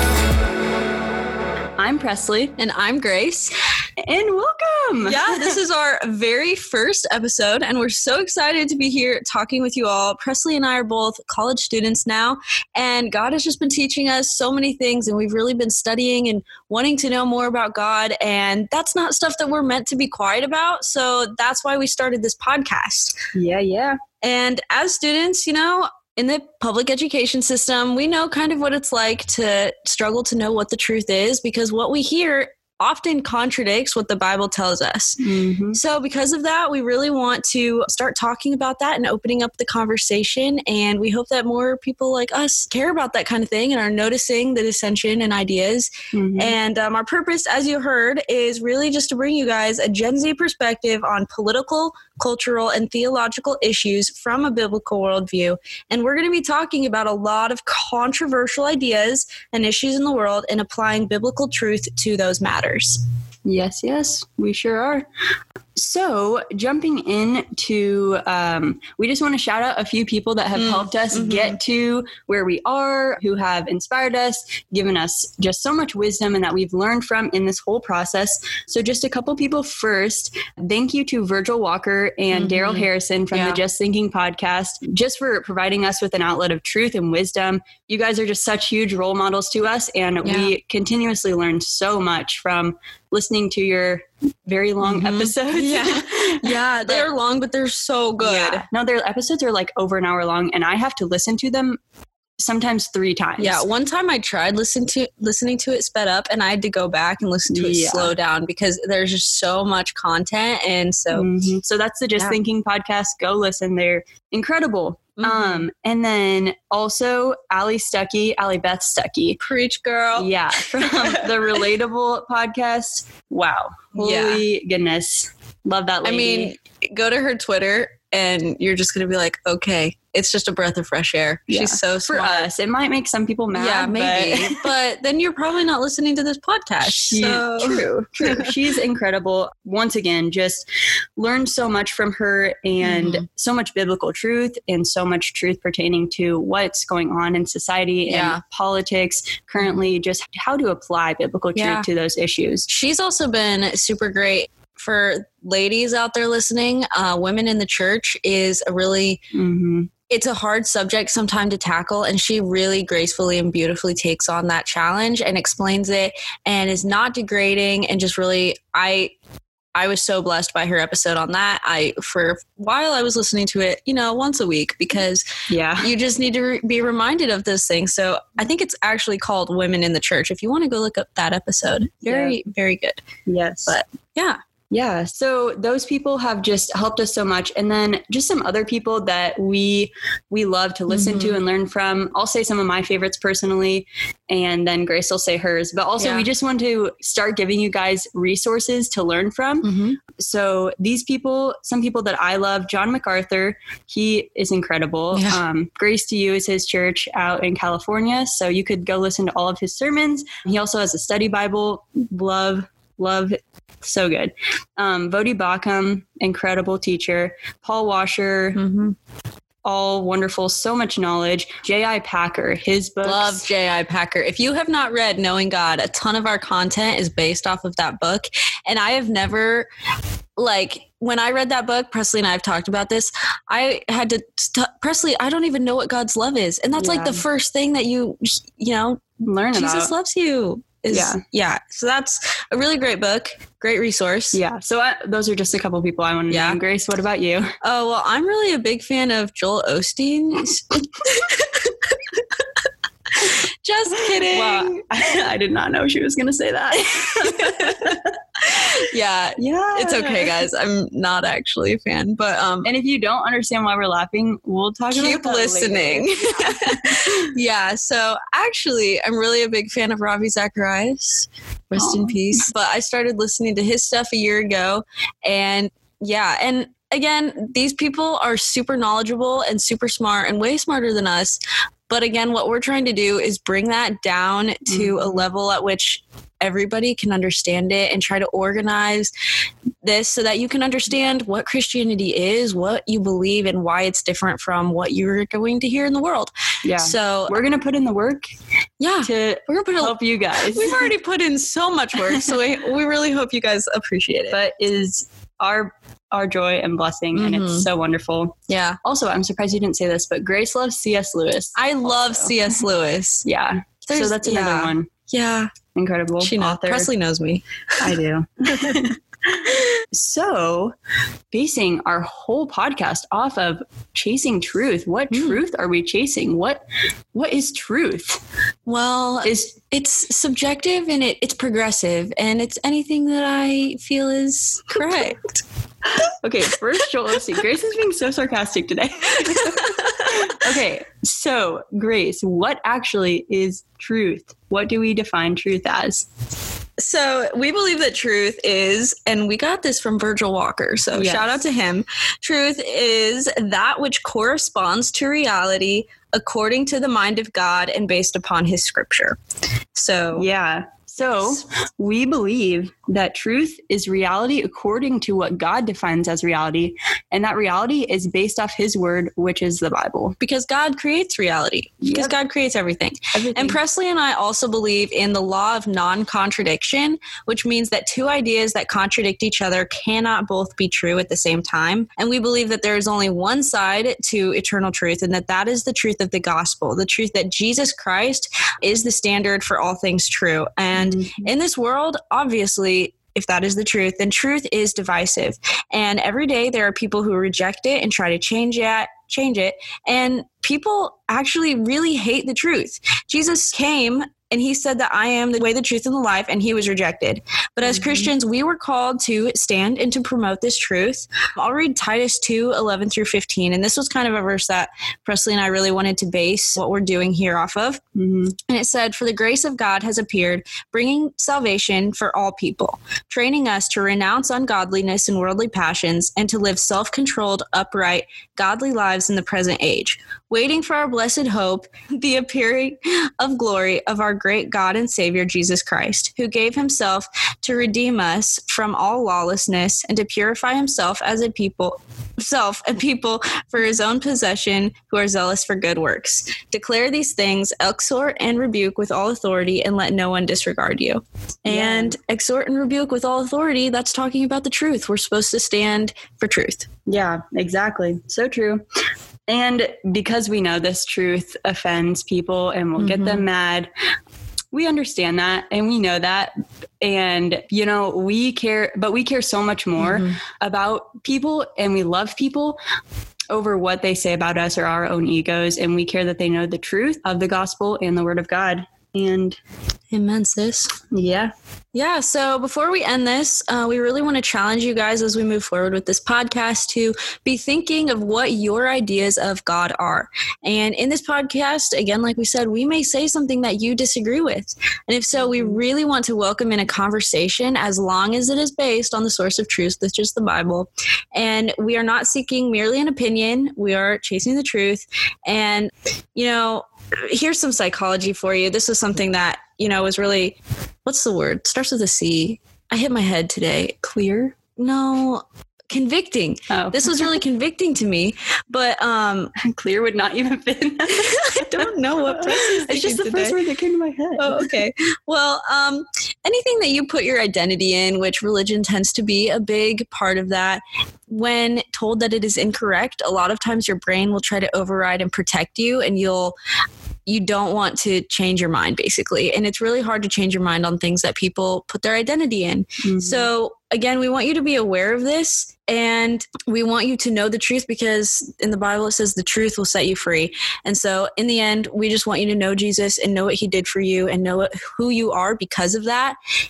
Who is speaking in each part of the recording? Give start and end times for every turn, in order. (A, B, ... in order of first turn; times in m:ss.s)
0:01.8-0:02.5 A
0:02.6-0:03.5 B
0:04.0-0:05.6 A
0:05.0-0:23.2 B
0:23.3-0:24.0 A
0:24.2-0:35.2 B
0:35.2-0:35.8 A
0:35.7-1:03.0 B
0:46.1-0:46.6 A
1:03.4-1:05.1 A
1:05.8-1:37.1 A
1:10.5-1:11.6 B
1:22.3-1:23.6 B
1:30.2-1:30.5 B
1:34.8-1:38.6 B
1:38.2-1:41.8 A
1:42.4-1:43.6 A
1:43.4-1:51.3 B
1:47.5-1:48.1 A
1:51.1-1:59.4 A
1:55.2-1:55.6 B
1:59.4-2:01.3 B
2:00.2-2:06.6 A
2:04.0-2:04.4 B
2:06.0-2:12.5 B
2:11.5-2:14.6 A
2:13.5-2:18.5 B
2:16.8-2:20.6 A
2:21.2-2:32.6 A
2:22.8-2:23.2 B
2:28.1-2:28.4 B
2:31.5-2:31.8 B
2:32.7-2:39.2 B
2:39.3-2:39.9 A
2:40.1-2:49.1 B
2:49.7-2:55.2 B
2:55.5-2:55.9 A
2:55.8-3:03.0 B
3:02.0-3:02.4 A
3:03.3-3:03.7 A
3:03.7-3:04.4 B
3:04.7-3:38.6 A
3:10.9-3:11.4 B
3:16.0-3:16.3 B
3:19.6-3:20.0 B
3:25.1-3:25.4 B
3:38.5-3:39.0 B
3:39.6-3:43.4 A
3:43.0-3:49.7 B
3:50.4-3:59.0 B
3:56.8-3:57.2 A
3:59.2-3:59.9 A
3:59.5-4:04.4 B
4:00.9-4:01.2 A
4:04.3-4:07.5 A
4:06.3-4:06.6 B
4:07.6-4:11.7 B
4:13.2-4:14.7 B
4:14.3-4:18.0 A
4:17.5-4:17.9 B
4:18.4-4:22.7 B
4:19.4-4:20.3 A
4:22.6-4:26.8 A
4:24.9-4:49.1 B
4:31.8-4:32.4 A
4:44.7-4:45.2 A
4:49.8-4:57.4 B
4:56.6-4:58.2 A
4:58.8-5:04.4 B
4:59.0-5:00.9 A
5:04.3-5:12.4 A
5:07.1-5:07.7 B
5:08.5-5:08.8 B
5:11.6-5:13.2 B
5:13.2-5:14.9 A
5:13.8-5:15.5 B
5:15.7-5:16.9 A
5:16.2-5:17.4 B
5:17.8-5:18.9 A
5:19.9-5:20.7 A
5:21.3-5:26.6 A
5:25.1-5:25.4 B
5:27.1-5:28.2 A
5:28.6-5:35.4 B
5:29.2-5:29.6 A
5:36.2-5:46.1 A
5:39.2-5:40.3 B
5:46.8-5:59.2 B
5:50.9-5:51.4 A
5:59.7-6:00.3 B
6:00.1-6:10.2 A
6:10.2-6:57.8 B
6:11.8-6:12.1 A
6:13.1-6:13.6 A
6:30.7-6:31.3 A
6:47.7-6:48.1 A
6:58.0-6:58.3 A
6:58.5-7:36.7 B
7:31.5-7:31.9 A
7:36.9-7:38.6 A
7:39.3-7:43.7 A
7:42.8-7:43.2 B
7:44.5-7:52.6 A
7:49.8-7:50.2 B
7:53.3-7:59.4 A
7:59.9-8:00.7 B
8:00.9-8:01.3 A
8:01.7-8:33.8 B
8:15.2-8:15.6 A
8:33.8-8:34.4 A
8:34.6-8:39.3 B
8:36.5-8:37.1 A
8:39.4-8:44.5 A
8:40.9-8:43.4 B
8:44.2-8:56.3 B
8:57.0-9:16.2 B
9:02.8-9:03.3 A